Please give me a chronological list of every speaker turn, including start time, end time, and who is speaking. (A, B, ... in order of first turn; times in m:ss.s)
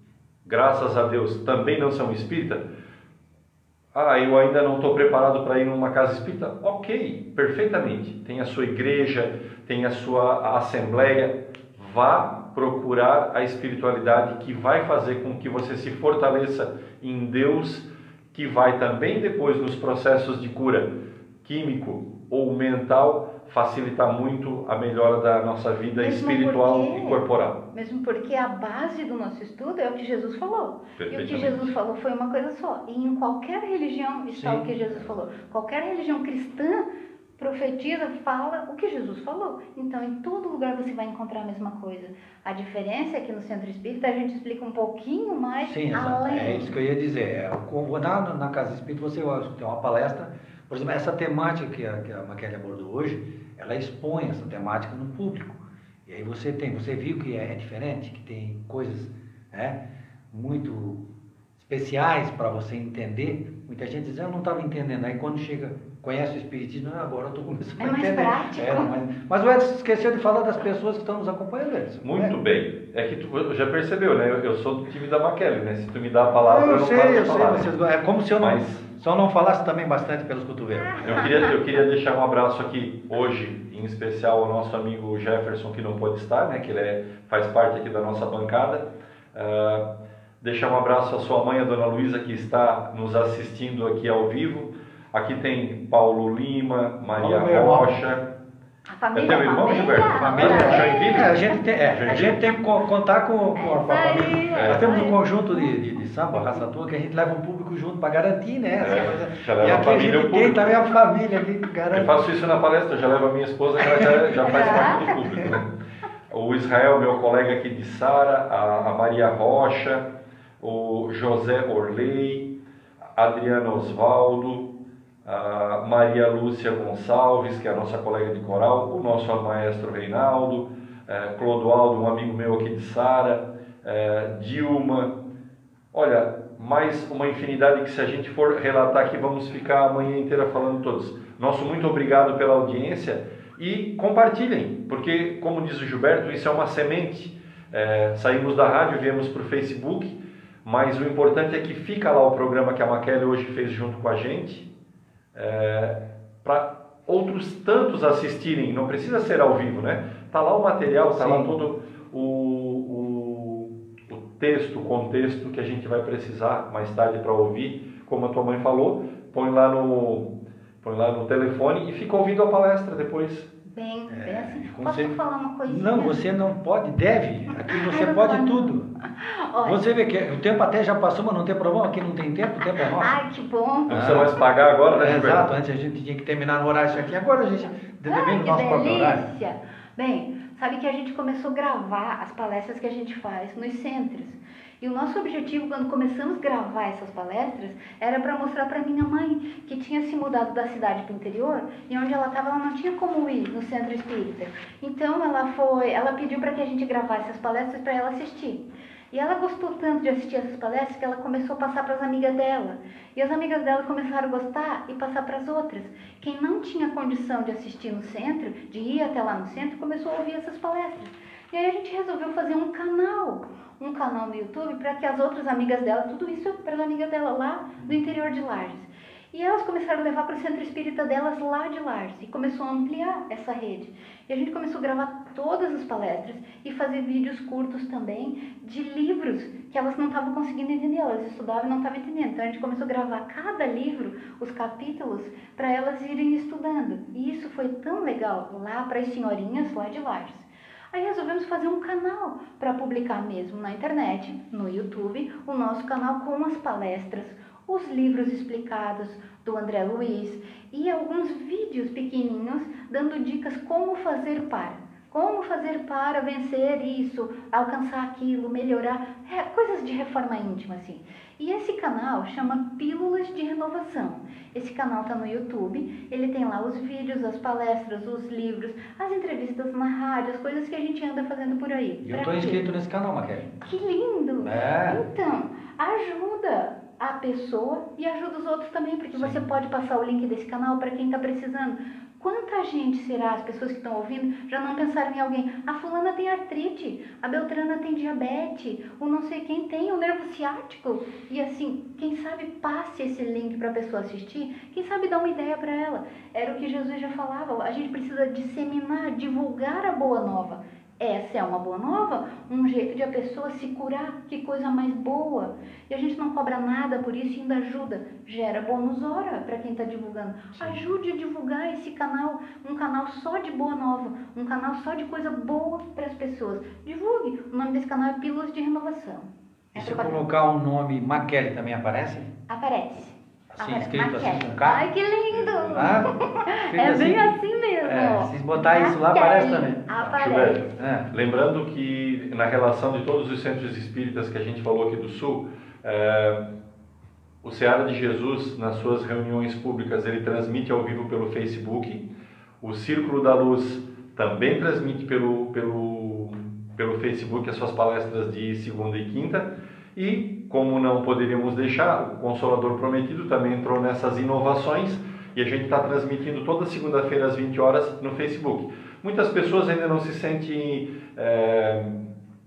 0:00.4-0:02.7 A
0:03.9-0:20.9 A
0:21.4-0:27.6 A
0:26.0-0:27.2 B
0:27.7-0:36.9 B
0:31.0-0:31.7 A
0:34.3-0:35.1 C
0:37.4-0:46.7 B
0:45.6-1:01.0 C
1:01.6-1:12.4 C
1:07.8-1:08.9 B
1:12.0-1:17.7 A
1:16.5-1:21.3 C
1:18.4-1:18.9 A
1:20.8-1:21.5 B
1:21.0-1:29.9 A
1:30.4-1:38.3 A
1:37.2-1:38.0 C
1:38.9-1:41.4 B
1:39.1-1:41.4 A
1:40.2-1:52.3 C
1:41.9-1:42.4 A
1:43.6-1:45.7 B
1:44.5-1:44.9 A
1:48.8-1:50.6 A
1:51.9-1:55.7 A
1:53.8-1:55.6 C
1:54.4-1:55.2 B
1:56.3-2:02.6 A
2:03.2-2:04.7 A
2:05.2-2:15.2 A
2:15.9-2:34.7 A
2:35.3-2:53.5 A
2:41.1-2:41.6 C
2:53.7-2:56.2 B
2:54.1-2:58.9 C
2:57.5-2:59.8 B
2:59.6-3:03.2 C
3:03.0-3:04.0 B
3:03.9-3:04.3 C
3:03.9-3:05.5 A
3:04.9-3:09.3 C
3:08.0-4:42.7 B
4:42.0-4:43.6 C
4:43.6-5:30.2 B
4:44.4-4:45.0 C
4:49.1-4:49.4 C
5:29.7-5:32.3 C
5:32.5-5:40.7 B
5:33.5-5:34.8 C
5:35.7-5:37.3 C
5:37.8-5:40.1 C
5:40.1-5:46.5 A
5:40.8-5:41.1 C
5:47.4-5:52.1 A
5:52.6-6:12.1 A